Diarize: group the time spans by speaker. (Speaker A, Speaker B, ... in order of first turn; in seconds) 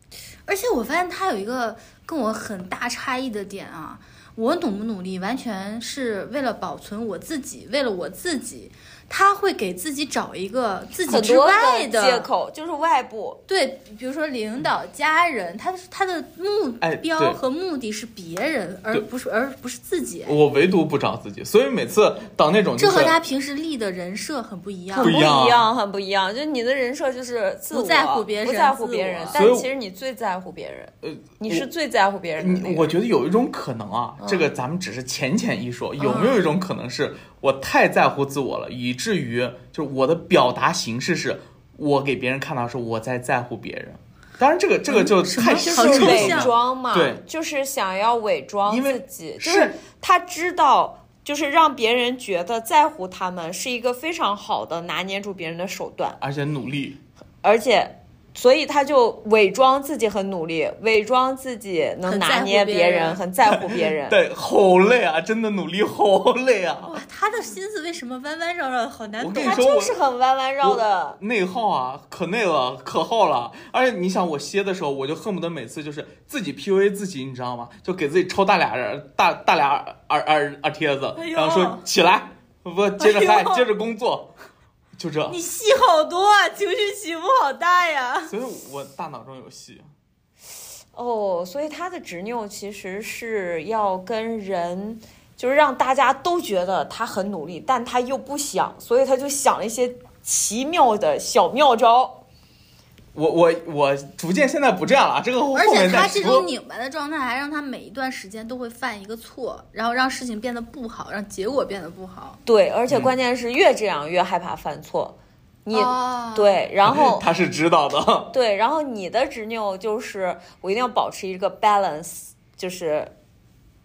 Speaker A: 0.5-12.3, 13.5-20.4, 22.8-25.2, 27.7-29.4, 36.0-36.4, 44.9-46.5, 62.1-63.2, 66.9-69.7, 81.2-81.8, 83.0-83.7, 85.3-88.3, 105.5-112.4, 115.7-116.6
Speaker B: 11.1-13.4, 24.9-33.0, 34.2-34.5, 45.5-56.2, 57.4-64.2, 69.3-71.2, 90.9-102.2, 112.5-117.3, 118.3-123.1
Speaker C: 16.8-17.4, 20.3-23.2, 25.0-25.7, 29.3-29.7, 31.0-31.7, 32.4-47.2, 48.7-49.8, 56.2-57.0, 63.5-67.0, 69.2-70.0, 70.6-84.3, 85.0-85.4, 88.3-89.9, 103.2-106.5, 116.8-118.3